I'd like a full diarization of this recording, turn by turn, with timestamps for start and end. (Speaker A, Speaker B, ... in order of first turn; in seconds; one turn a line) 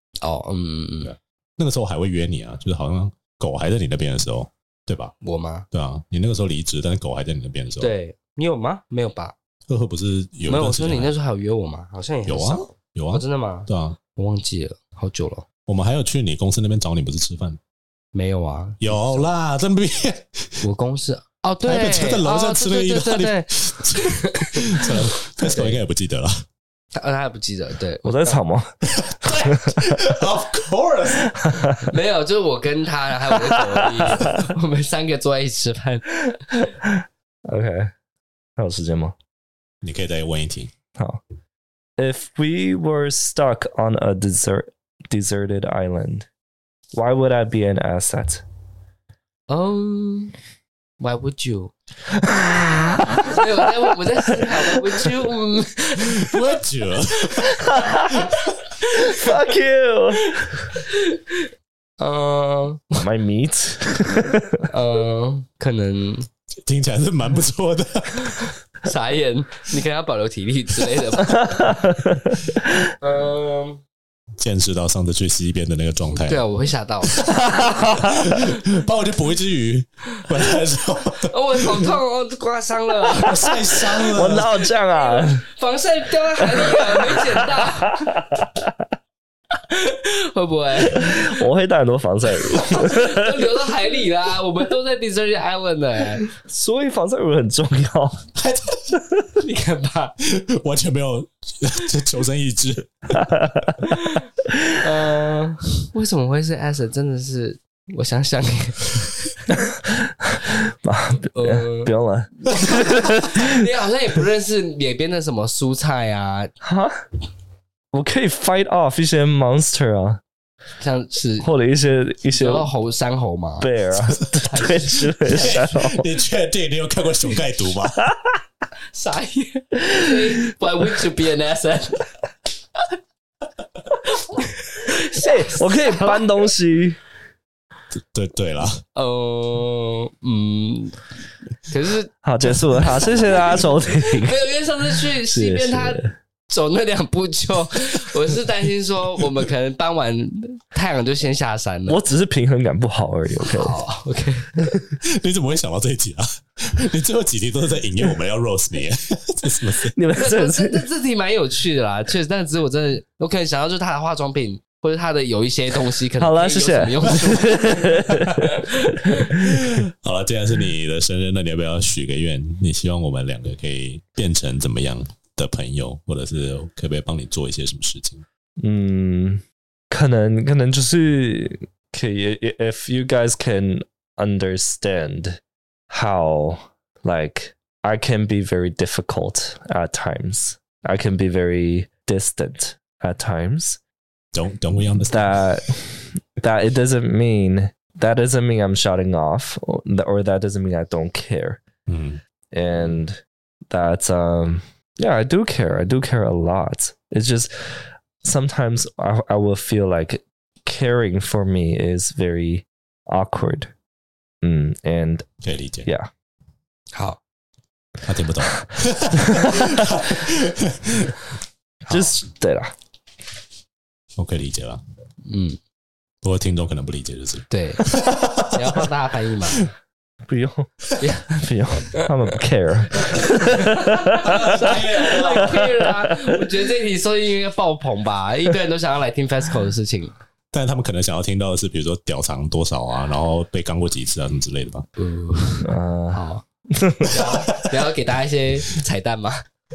Speaker A: 0.2-1.1
Speaker B: 1.0-5.1
Speaker A: 5.2-5.7
Speaker B: 5.7-7.9
Speaker A: 7.8-9.3
Speaker B: 9.7-11.1
Speaker A: 10.5-15.4
Speaker B: 12.3-14.0
Speaker B: 15.7-17.6
Speaker A: 18.1-19.3
Speaker B: 18.8-20.6
Speaker A: 20.6-25.8
Speaker B: 21.6-26.4
Speaker A: 26.9-28.4
Speaker C: 28.0-30.0
Speaker B: 28.9-31.3
Speaker C: 31.3-31.8
Speaker A: 31.9-36.7
Speaker C: 33.5-34.3
Speaker C: 37.5-37.9
Speaker C: 38.6-39.1
Speaker B: 39.8-40.7
Speaker C: 41.0-41.2
Speaker C: 42.0-46.3
Speaker C: 46.9-48.4
Speaker A: 49.5-50.3
Speaker A: 51.0-51.7
Speaker C: 52.1-55.3
Speaker A: 53.2-56.4
Speaker B: 56.2-58.5
Speaker C: 57.4-58.3
Speaker C: 58.9-60.5
Speaker A: 60.4-61.4
Speaker A: 62.0-62.9
Speaker C: 63.0-64.6
Speaker A: 64.6-66.3
Speaker B: 66.6-68.5
Speaker A: 68.8-71.7
Speaker C: 71.5-72.3
Speaker A: 73.0-73.8
Speaker B: 74.4-76.4
Speaker A: 76.1-77.2
Speaker B: 77.1-81.9
Speaker C: 77.4-78.4
Speaker A: 81.2-88.0
Speaker B: 83.2-84.5
Speaker C: 84.1-85.4
Speaker C: 86.5-88.9
Speaker A: 89.7-91.3
Speaker C: 90.8-93.6
Speaker A: 92.5-96.2
Speaker C: 96.3-98.3
Speaker B: 98.3-99.0
Speaker A: 99.4-100.1
Speaker B: 100.2-103.3
Speaker C: 103.2-103.9
Speaker A: 103.9-104.3
Speaker A: 104.8-109.5
Speaker C: 109.5-113.6
Speaker A: 111.3-116.5
Speaker C: 116.6-117.0
Speaker C: 117.9-120.2
Speaker A: 120.8-121.5
Speaker C: 121.4-122.7
Speaker A: 122.3-123.7
Speaker C: 123.6-126.1
Speaker A: 124.4-125.7
Speaker B: 125.2-128.1
Speaker C: 128.1-128.4
Speaker A: 128.9-132.1
Speaker C: 129.9-130.2
Speaker A: 134.0-136.5
Speaker C: 135.2-137.0
Speaker B: 137.9-138.8
Speaker A: 138.9-141.0
Speaker A: 141.7-142.1
Speaker C: 142.2-144.4
Speaker A: 143.3-152.0
Speaker C: 145.1-146.1
Speaker C: 151.9-153.8
Speaker A: 153.4-154.5
Speaker B: 155.0-159.9
Speaker C: 159.9-160.9
Speaker A: 160.2-169.4
Speaker C: 166.2-168.6
Speaker C: 169.2-169.9
Speaker B: 169.7-178.2
Speaker C: 178.6-193.8
Speaker B: 194.3-195.5
Speaker C: 195.1-201.6
Speaker B: 201.9-202.2
Speaker C: 202.5-213.7
Speaker C: 214.4-215.3
Speaker B: 215.4-215.9
Speaker C: 215.8-216.1
Speaker A: 216.9-217.2
Speaker B: 218.0-221.2
Speaker C: 219.3-219.7
Speaker C: 221.8-222.7
Speaker B: 224.2-224.8
Speaker A: 225.2-225.6
Speaker B: 226.2-228.8
Speaker A: 227.5-229.7
Speaker C: 230.2-236.4
Speaker A: 231.0-231.3
Speaker A: 233.0-240.2
Speaker B: 234.1-235.6
Speaker B: 240.5-244.9
Speaker A: 245.0-246.4
Speaker C: 245.6-247.2
Speaker A: 247.1-249.4
Speaker B: 247.2-247.9